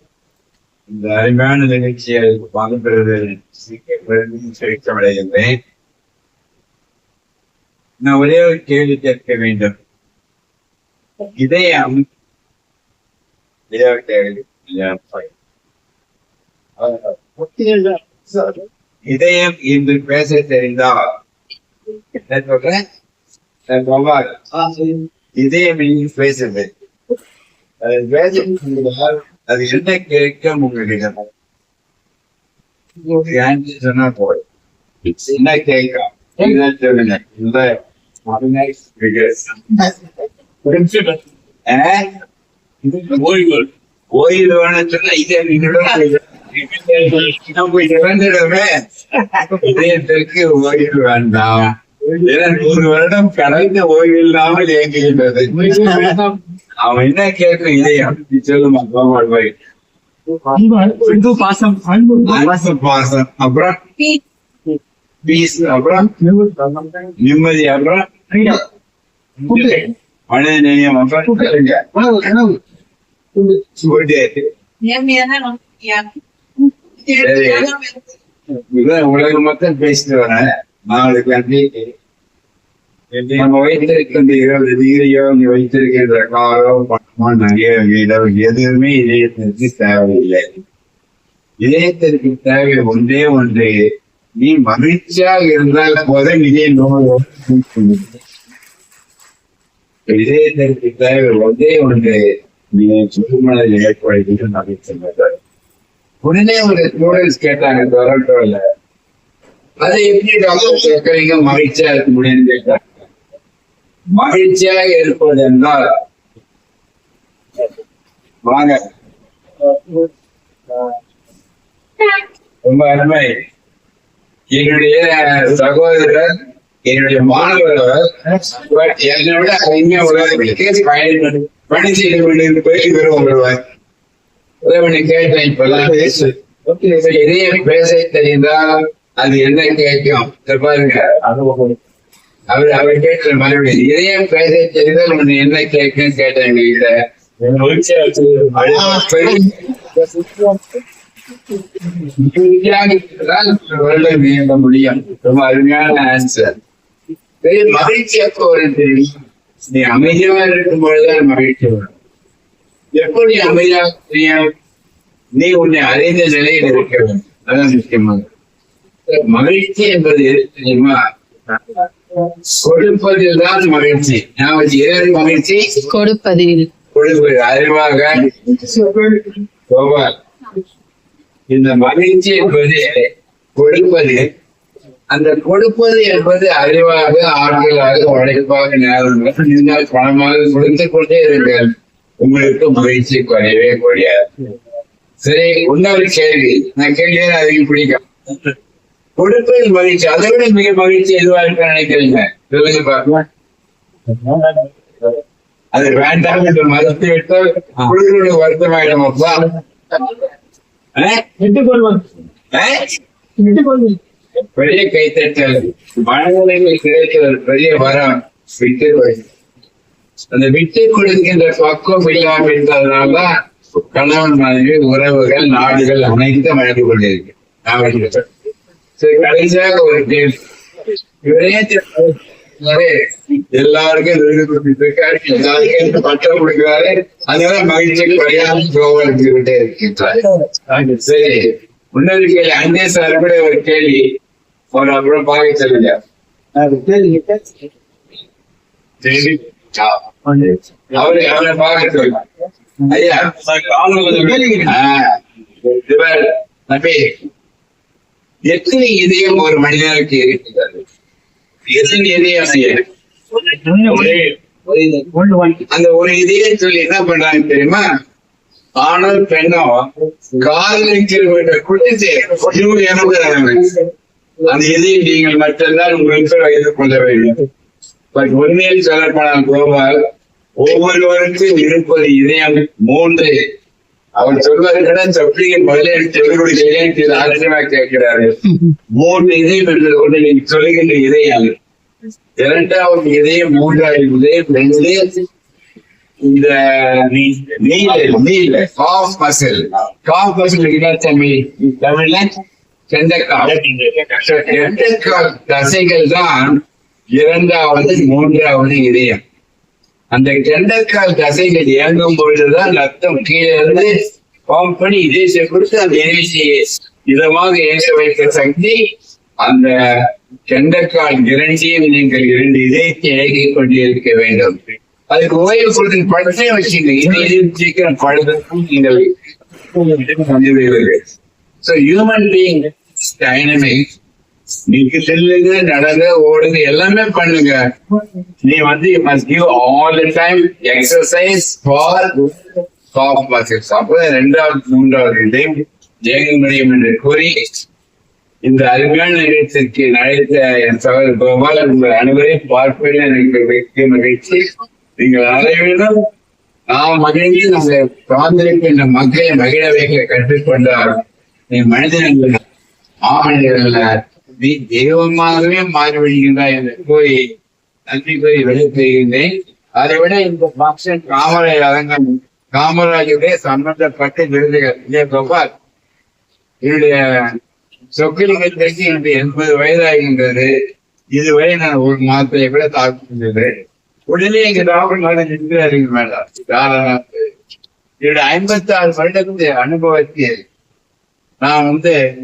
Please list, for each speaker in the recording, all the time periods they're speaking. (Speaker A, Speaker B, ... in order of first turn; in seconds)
Speaker A: 0.9-5.6, 8.0-9.7, 11.3-12.0, 13.7-15.3, 16.8-21.1, 22.2-22.8, 23.7-26.7, 27.8-31.2, 33.1-34.4, 35.1-39.9, 41.7-42.1, 44.1-48.9, 49.4-56.2, 56.8-59.5, 62.2-64.2, 65.2-66.1, 67.2-68.5, 70.3-71.8, 73.8-74.5, 77.1-77.8, 78.6-81.9, 83.1-90.6, 91.6-93.8, 94.4-98.1, 100.1-105.4, 106.2-108.6, 109.8-112.8, 114.1-115.9, 118.4-118.8, 122.1-123.3, 124.5-126.3, 126.8-133.6, 134.6-141.2, 142.5-147.0, 148.5-149.9, 151.9-156.6, 157.4-159.2, 159.7-161.9, 162.9-164.5, 165.4-168.2, 169.1-171.0, 172.2-175.9, 176.9-178.6, 179.7-180.2, 181.5-184.3, 185.1-194.2, 195.2-198.5, 199.2-203.2, 205.7-209.6, 211.0-211.2, 212.5-212.9, 214.6-219.3, 220.3-223.3, 223.9-228.3, 229.0-230.3, 231.2-244.1, 244.7-246.0, 249.0-250.0, 250.9-252.2, 252.9-253.4, 254.4-255.1, 255.6-257.2, 258.5-260.9, 261.7-262.8, 263.9-264.3, 265.7-267.9, 268.8-273.8, 274.4-277.4, 278.1-280.0, 280.6-283.4, 284.2-291.6, 292.4-295.2, 296.2-302.4, 302.9-306.6, 307.1-309.2, 310.1-318.8, 319.4-319.8, 320.5-324.6, 325.1-329.1, 329.7-331.1, 331.6-333.9, 334.7-337.6, 338.4-342.3, 342.9-347.6, 348.4-355.9, 356.7-361.0, 361.5-362.4, 363.0-367.2, 367.9-375.5, 376.6-377.4, 377.9-380.5, 381.1-387.3, 388.0-390.4, 391.4-392.0
Speaker B: 40.6-41.2, 43.1-43.7, 52.4-52.8, 55.5-56.4, 60.4-62.7, 66.0-67.1, 68.3-68.6, 69.4-69.9, 71.3-72.6, 73.4-73.8, 136.7-137.1, 141.2-141.8, 147.4-150.6, 178.6-179.3, 204.1-205.2, 211.4-212.1, 213.4-214.0, 246.6-247.5, 250.3-251.1, 252.9-254.7, 263.4-265.6, 303.5-303.8
Speaker C: 74.8-76.2, 77.3-77.9, 175.8-176.7